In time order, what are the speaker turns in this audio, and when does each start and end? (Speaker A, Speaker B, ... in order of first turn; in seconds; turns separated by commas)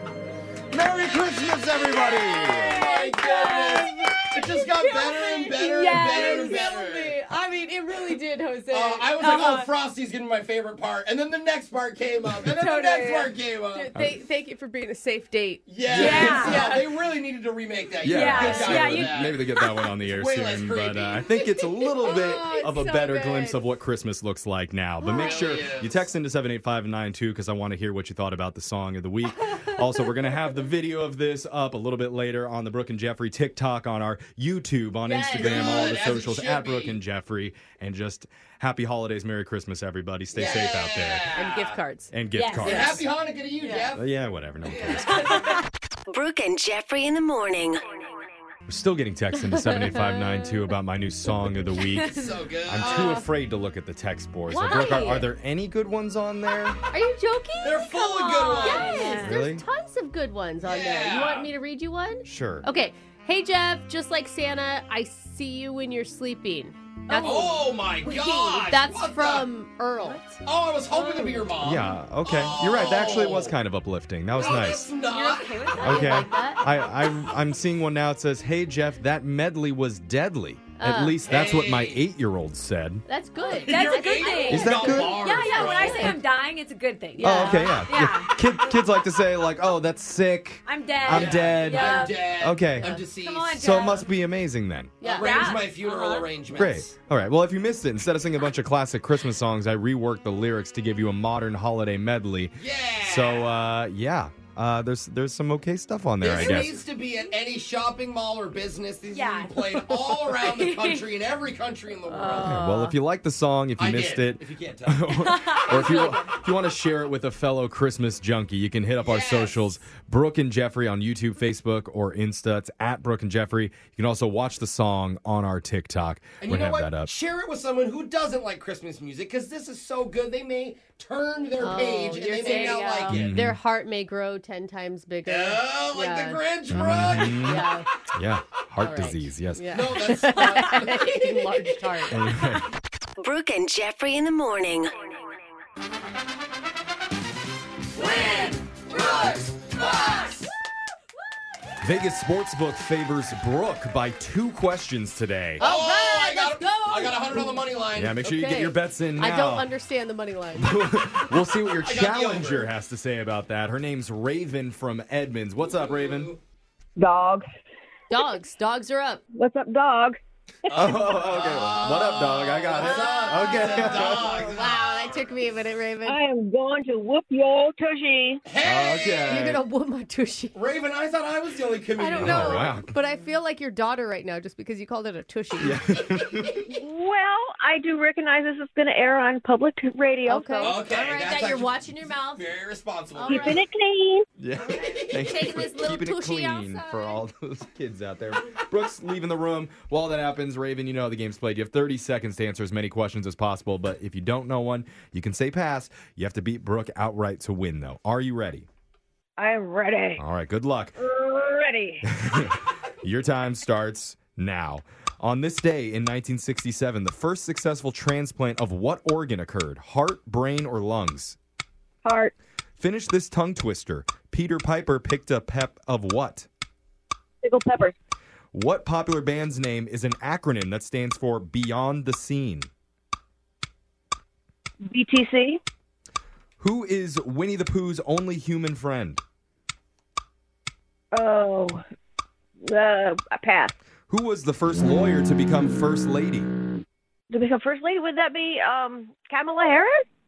Speaker A: 0.7-3.0, Speaker B: 0.8-7.2, Speaker C: 2.9-4.2, Speaker D: 3.2-3.6, Speaker D: 4.5-9.6, Speaker C: 5.7-6.6, Speaker B: 8.7-13.9, Speaker C: 9.2-9.7, Speaker C: 12.5-13.3, Speaker D: 13.7-16.8, Speaker A: 13.9-14.2, Speaker B: 15.7-19.4, Speaker A: 15.9-16.6, Speaker C: 15.9-16.8, Speaker A: 18.0-41.3, Speaker C: 18.0-19.7, Speaker B: 20.1-21.3, Speaker D: 22.1-23.5, Speaker C: 22.1-23.3, Speaker D: 25.0-25.6, Speaker B: 25.2-26.0, Speaker D: 35.0-36.0, Speaker B: 35.3-37.0, Speaker B: 40.3-41.8, Speaker D: 41.3-42.1, Speaker A: 42.1-43.1, Speaker C: 42.3-42.9, Speaker B: 42.6-44.1, Speaker D: 43.6-43.9, Speaker A: 43.9-45.4, Speaker B: 44.6-45.6, Speaker C: 45.2-45.5, Speaker E: 46.1-48.3, Speaker A: 48.7-56.8, Speaker D: 49.4-50.2, Speaker C: 51.9-52.3, Speaker B: 52.1-53.2, Speaker D: 52.8-53.2, Speaker C: 54.5-55.2, Speaker D: 56.9-70.4, Speaker B: 57.6-59.2, Speaker C: 58.0-59.4, Speaker A: 59.2-59.6, Speaker B: 60.6-61.5, Speaker A: 62.2-62.6, Speaker C: 67.1-67.5, Speaker B: 67.1-69.5, Speaker B: 70.4-73.5, Speaker A: 71.6-74.9, Speaker B: 74.3-76.1, Speaker C: 74.4-76.2, Speaker D: 75.0-76.6, Speaker A: 75.8-83.0, Speaker D: 80.8-81.3, Speaker B: 81.2-82.0, Speaker D: 83.1-86.2, Speaker B: 83.6-86.2, Speaker C: 83.6-88.8, Speaker A: 84.5-85.4, Speaker D: 87.2-87.9, Speaker A: 87.2-93.0, Speaker C: 90.7-92.3, Speaker B: 91.0-93.5, Speaker C: 93.2-94.1, Speaker A: 93.5-95.0, Speaker D: 95.0-95.5, Speaker B: 95.0-96.9, Speaker C: 95.2-96.3, Speaker A: 96.5-106.8, Speaker B: 102.5-103.6, Speaker B: 106.2-112.6, Speaker C: 109.1-111.1, Speaker D: 112.1-113.0, Speaker A: 112.3-127.1, Speaker B: 113.8-115.9, Speaker C: 115.2-116.3, Speaker B: 119.0-119.7, Speaker B: 126.4-133.4, Speaker D: 131.6-136.4, Speaker C: 132.4-133.0, Speaker A: 133.1-133.6, Speaker B: 135.2-137.7, Speaker A: 136.7-140.0, Speaker D: 137.1-137.9, Speaker D: 138.8-142.4, Speaker B: 139.7-141.8, Speaker A: 142.1-142.7, Speaker E: 143.2-145.3, Speaker B: 147.9-150.5, Speaker A: 151.8-155.7, Speaker B: 155.6-158.3, Speaker D: 155.6-157.6, Speaker A: 157.9-159.7, Speaker D: 158.2-160.8, Speaker A: 160.6-166.3, Speaker B: 161.8-162.7, Speaker B: 165.7-166.4, Speaker F: 167.0-167.4, Speaker D: 168.1-169.2, Speaker F: 169.3-170.2, Speaker B: 170.7-175.3, Speaker A: 170.7-174.3, Speaker D: 172.8-176.2, Speaker F: 176.0-178.4, Speaker B: 178.4-179.4, Speaker A: 178.6-179.6, Speaker D: 179.2-180.5, Speaker B: 180.5-182.7, Speaker D: 181.9-185.8, Speaker A: 182.1-182.9, Speaker A: 185.6-186.6, Speaker F: 186.7-190.8, Speaker D: 190.3-192.5, Speaker B: 190.6-193.6, Speaker D: 193.1-193.6, Speaker F: 193.2-194.3, Speaker A: 194.4-208.7, Speaker D: 194.9-197.2, Speaker F: 209.4-210.2, Speaker A: 210.2-211.0, Speaker F: 211.0-212.1, Speaker A: 212.1-221.4, Speaker F: 222.0-222.3, Speaker A: 222.8-226.5, Speaker F: 227.4-227.9, Speaker A: 228.5-232.7, Speaker F: 234.8-235.6, Speaker A: 236.6-239.2, Speaker F: 241.1-241.8, Speaker F: 242.6-243.8, Speaker A: 244.1-246.5, Speaker F: 247.3-250.0